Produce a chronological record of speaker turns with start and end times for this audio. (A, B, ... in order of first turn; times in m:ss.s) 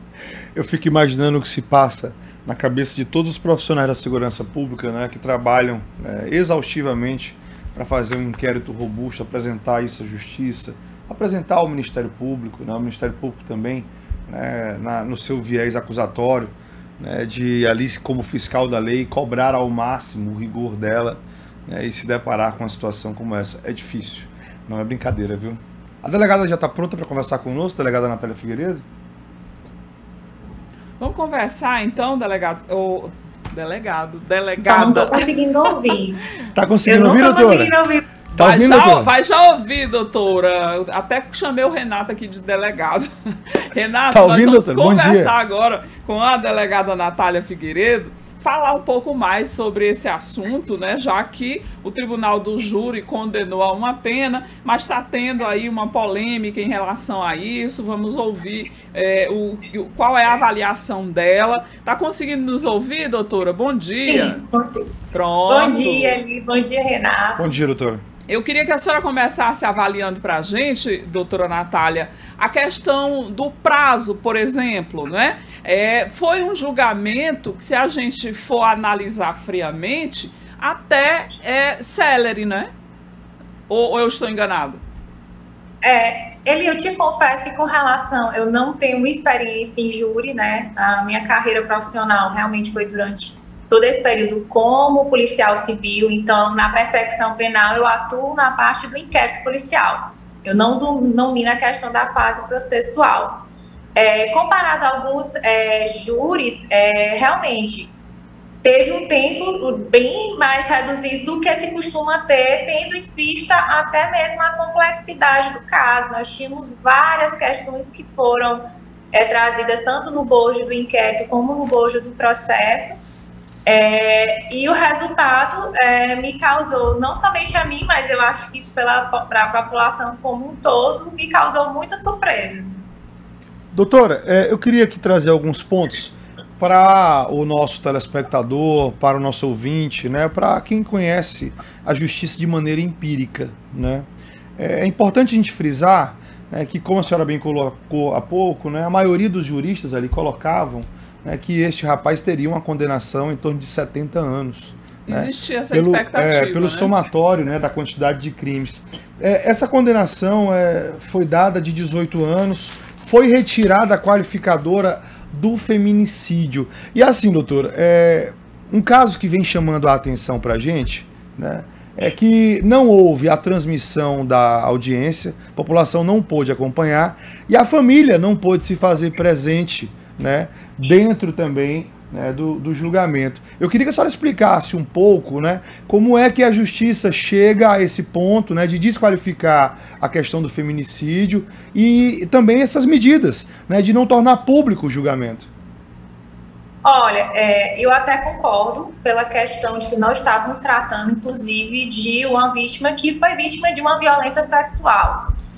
0:00.5-0:28.8 A
0:31.0-0:35.3 B
0:34.6-0:36.2 C
0:36.5-0:37.7 A
0:36.8-0:38.1 C
0:38.3-1:04.4 B
0:38.3-0:39.1 A
0:44.1-0:45.3 A
1:04.0-1:04.9 C
1:05.1-1:06.2 B
1:05.5-1:07.5 C
1:07.4-1:08.0 A
1:08.3-1:22.7 B
1:23.7-1:24.8 B
1:25.8-1:43.4 C
1:44.0-1:47.9 C
1:48.6-2:02.9 C
2:03.6-2:12.8 C
2:13.7-3:15.5 A
2:35.1-2:36.9 B
3:16.8-3:25.2 C